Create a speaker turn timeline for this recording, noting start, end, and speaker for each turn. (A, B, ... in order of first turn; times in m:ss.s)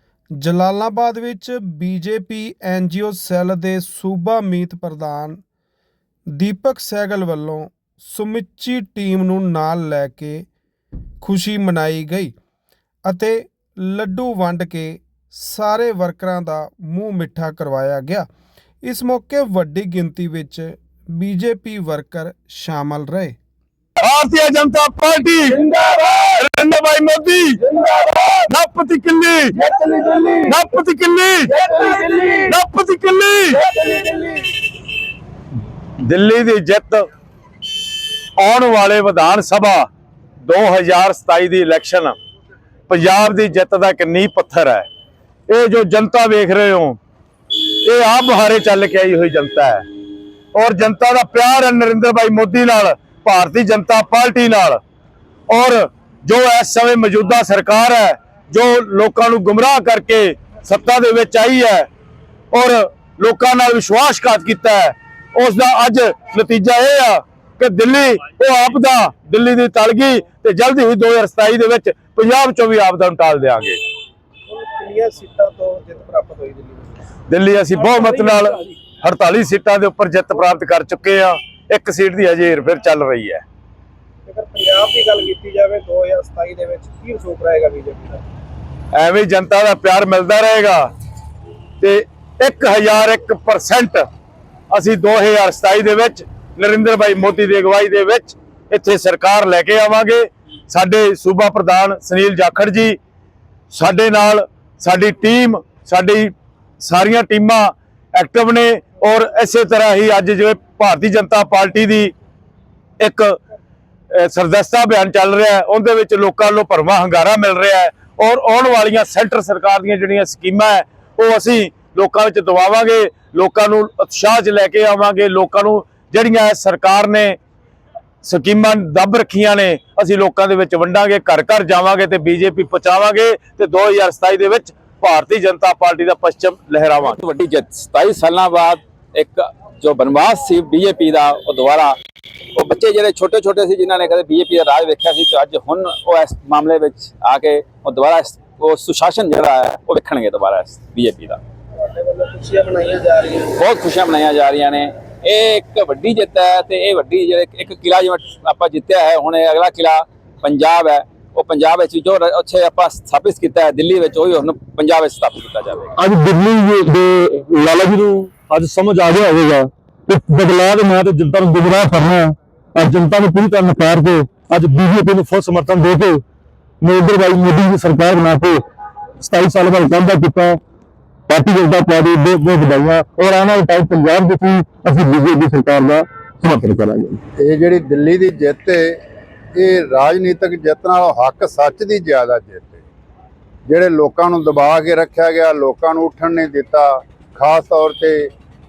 0:00.4-0:05.4 A
0:06.3-0:10.5 A
0:11.2-0:12.4 A
0:13.0-0:18.3 A
0:18.8-0:23.4 A
0:24.0-0:27.6 B
0:28.3-0:29.6 B
0:29.7-0:30.4 C
0:30.3-0:31.6 B
0:31.6-0:32.4 C
0:32.3-0:33.7 B
0:33.7-0:34.3 C
0:36.0-0:37.1 B
0:38.4-0:39.9 B
0:40.4-0:42.2 B
0:42.9-0:44.9 B
0:45.5-0:47.0 B
0:47.8-0:49.8 B
0:50.5-0:54.8 B
0:55.5-1:01.9 B
1:02.5-1:13.8 B
1:14.5-1:17.1 C
1:17.3-1:23.4 B
1:24.3-1:28.2 C
1:28.9-1:30.9 B
1:31.8-1:34.1 B
1:34.7-1:43.0 B
1:43.7-1:52.1 B
1:53.0-1:53.4 B
1:54.1-2:07.4 B
2:08.2-2:17.2 B
2:17.0-2:22.0 D
2:22.6-2:31.4 D
2:31.8-2:33.5 C
2:33.5-2:45.9 D
2:46.0-2:56.2 E
2:56.8-2:58.6 E
2:59.2-3:00.6 E
3:01.3-3:07.2 E
3:07.4-3:09.0 F
3:09.6-3:12.8 F
3:13.7-3:18.3 F